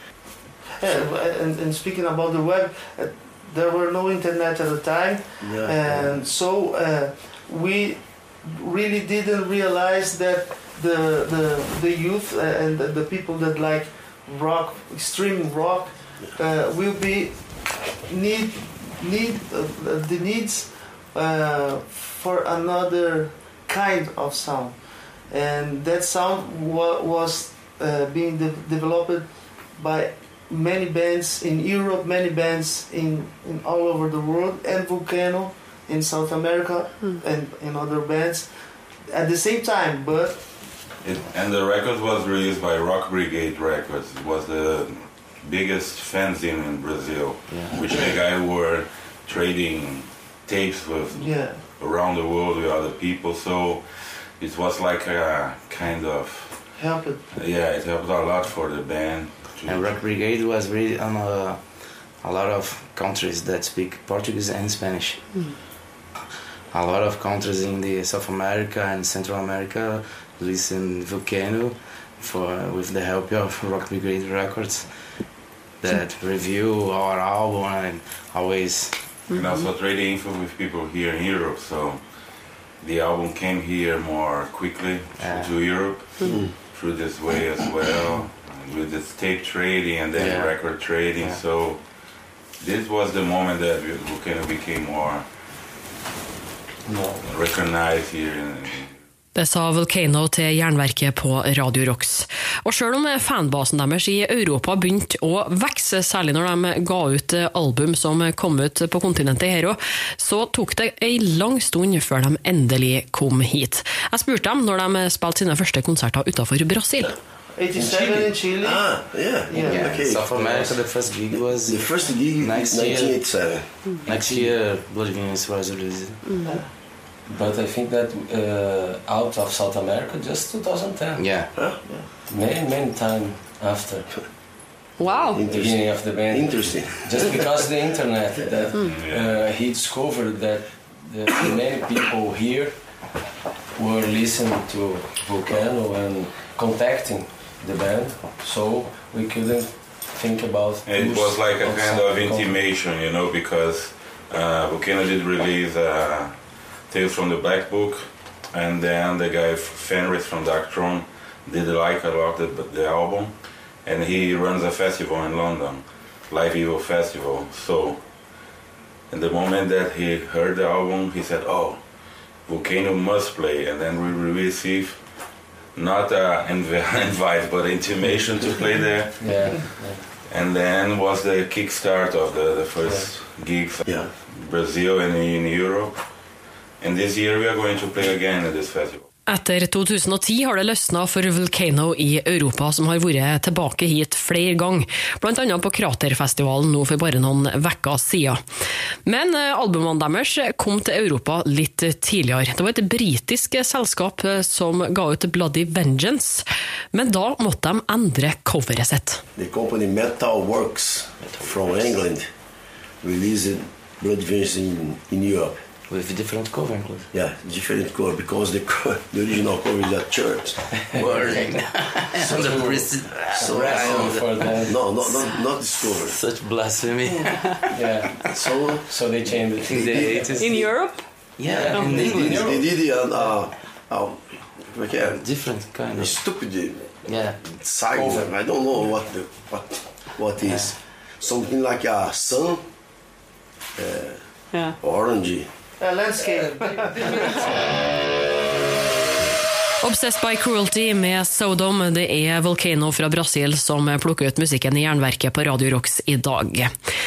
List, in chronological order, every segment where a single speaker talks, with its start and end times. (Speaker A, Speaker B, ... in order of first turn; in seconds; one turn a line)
Speaker A: 0.8-40.9
Speaker B: 5.4-6.2
Speaker C: 41.0-59.9
Speaker D: 47.5-48.0
Speaker A: 51.1-51.6
Speaker A: 56.8-57.2
Speaker D: 59.6-65.5
Speaker D: 66.7-79.2
Speaker C: 79.3-95.3
Speaker D: 85.2-85.9
Speaker B: 86.2-86.5
Speaker D: 90.1-91.4
Speaker E: 96.8-97.3
Speaker C: 97.2-98.9
Speaker F: 99.3-117.2
Speaker A: 117.5-120.0
Speaker B: 117.7-124.4
Speaker D: 119.5-126.4
Speaker A: 126.4-126.7
Speaker E: 127.2-131.4
Speaker D: 131.2-131.7
Speaker A: 131.8-132.1
Speaker E: 132.3-134.3
Speaker F: 135.0-135.4
Speaker B: 135.3-137.4
Speaker E: 135.3-143.1
Speaker C: 138.8-139.3
Speaker E: 143.7-152.6
Speaker C: 150.8-168.4
Speaker C: 169.1-189.1
Speaker E: 179.2-180.1
Speaker E: 182.8-183.1
Speaker F: 189.3-198.4
Speaker F: 199.0-209.2
Speaker B: 209.3-212.3
Speaker D: 211.2-211.6
Speaker B: 213.0-215.6
Speaker D: 215.9-217.1
Speaker B: 217.1-221.0
Speaker E: 220.9-224.9
Speaker D: 220.9-228.3
Speaker B: 222.2-226.2
Speaker E: 227.7-230.7
Speaker B: 228.3-228.9
Speaker D: 229.5-232.6
Speaker B: 229.7-230.7
Speaker F: 230.4-231.0
Speaker E: 231.3-233.0
Speaker B: 231.8-235.2
Speaker D: 235.1-236.2
Speaker B: 235.9-242.6
Speaker D: 237.0-237.4
Speaker E: 237.9-238.3
Speaker B: 243.7-244.2
Speaker B: 244.8-245.5
Speaker A: 245.8-247.4
Speaker F: 249.8-256.7